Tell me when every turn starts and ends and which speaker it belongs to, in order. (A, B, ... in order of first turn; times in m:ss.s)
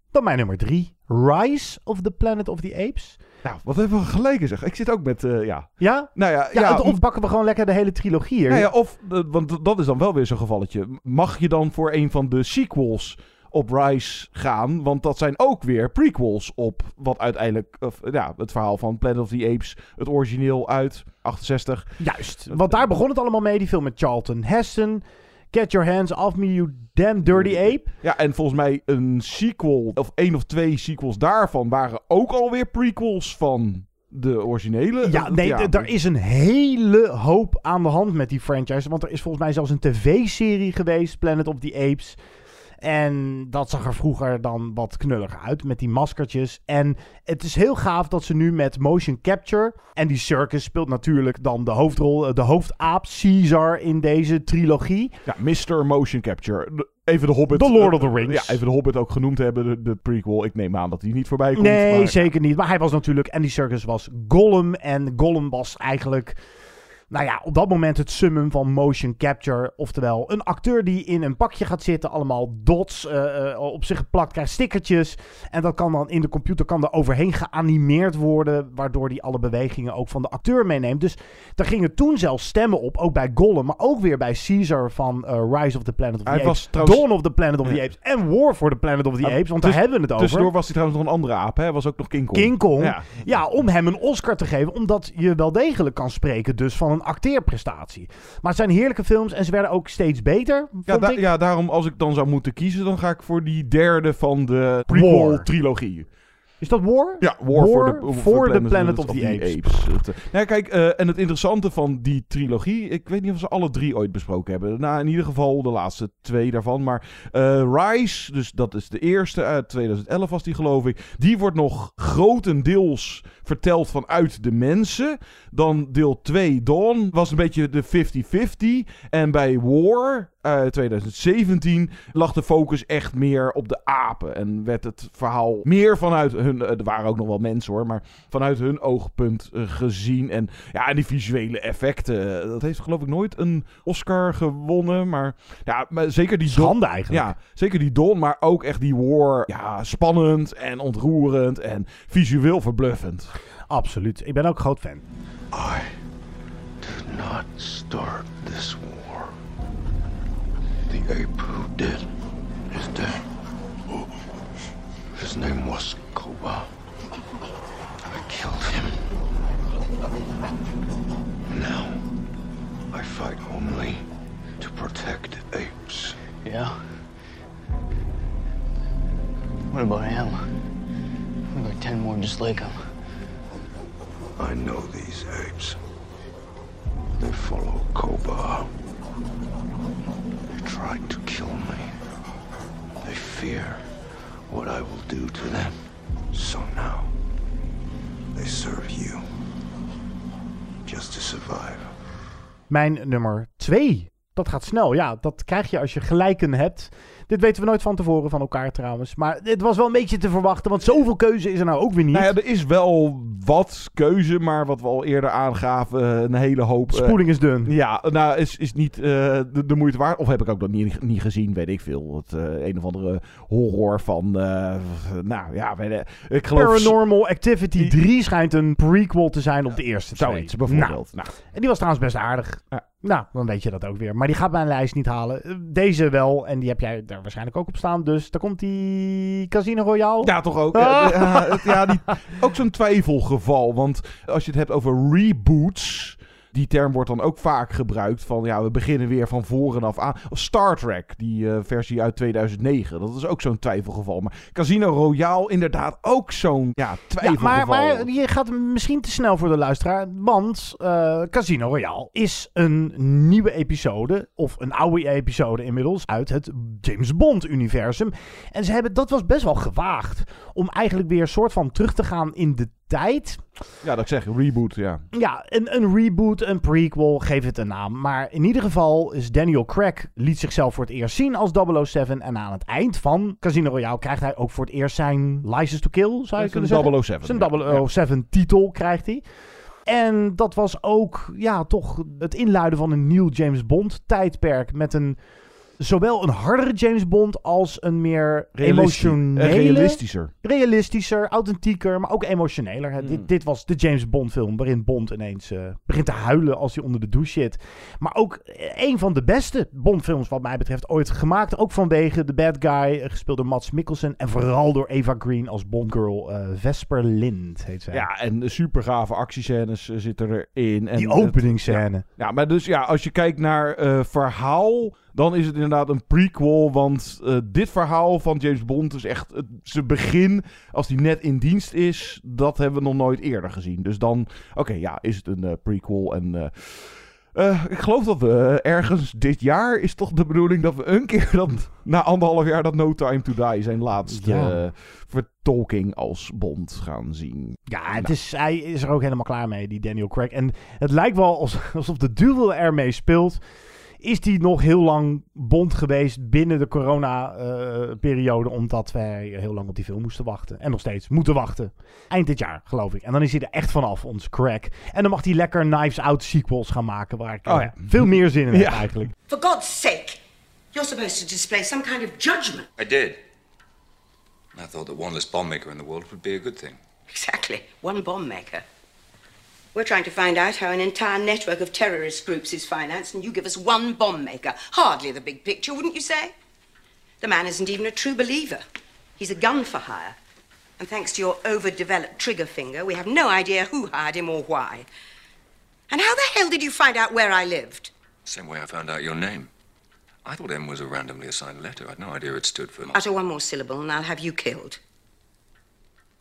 0:00.1-0:03.2 A
0:03.4-0:07.0 B
0:05.8-0:08.7 A
0:08.5-0:22.0 B
0:22.0-0:27.9 A
0:22.5-0:22.8 B
0:27.3-0:35.9 B
0:35.0-0:42.2 A
0:42.8-0:55.2 A
0:55.3-1:02.3 B
0:57.5-0:58.6 A
1:01.6-1:06.4 A
1:07.1-1:30.5 A
1:26.3-1:27.1 B
1:29.2-1:33.4 B
1:32.3-1:41.2 A
1:40.9-1:46.1 B
1:44.9-1:45.5 A
1:46.6-1:49.8 A
1:47.2-2:33.3 B
2:26.5-2:27.3 A
2:33.7-2:35.0 A
2:35.5-2:35.9 C
2:36.8-2:39.3 C
2:40.9-2:42.1 C
2:42.7-2:43.2 C
2:45.2-2:46.7 C
2:48.0-2:49.0 C
2:51.5-2:52.0 C
2:52.9-2:54.0 C
2:54.6-2:56.2 C
2:56.4-2:56.8 D
2:59.7-3:00.5 D
3:01.5-3:02.8 D
3:04.4-3:05.8 C
3:07.2-3:08.7 C
3:10.5-3:12.0 C
3:13.0-3:13.8 C
3:14.5-3:15.8 C
3:16.3-3:17.1 C
3:18.4-3:19.2 C
3:20.8-3:21.9 C
3:22.7-3:32.3 A
3:32.1-3:47.0 B
3:36.9-3:37.7 A
3:46.6-3:51.0 A
3:50.2-3:51.3 B
3:51.5-4:01.9 A
4:00.2-4:18.1 B
4:17.2-4:33.4 A
4:33.8-4:35.0 B
4:35.1-4:49.2 A
4:46.4-4:47.9 B
4:49.9-4:55.2 A
4:55.8-5:18.1 A
4:58.6-5:00.3 B
5:03.0-5:03.3 B
5:17.9-5:48.1 B
5:21.0-5:22.0 A
5:44.1-5:44.6 A
5:47.7-5:53.4 A
5:54.0-6:09.1 A
6:07.5-6:09.1 B
6:09.3-6:10.2 E
6:10.7-6:12.7 E
6:12.8-6:13.2 F
6:14.5-6:16.8 F
6:17.1-6:18.6 E
6:19.7-6:26.3 E
6:27.2-6:28.6 E
6:29.2-6:30.2 E
6:30.8-6:34.9 E
6:35.9-6:37.9 E
6:38.3-6:39.5 F
6:40.2-6:43.0 F
6:42.9-6:44.8 E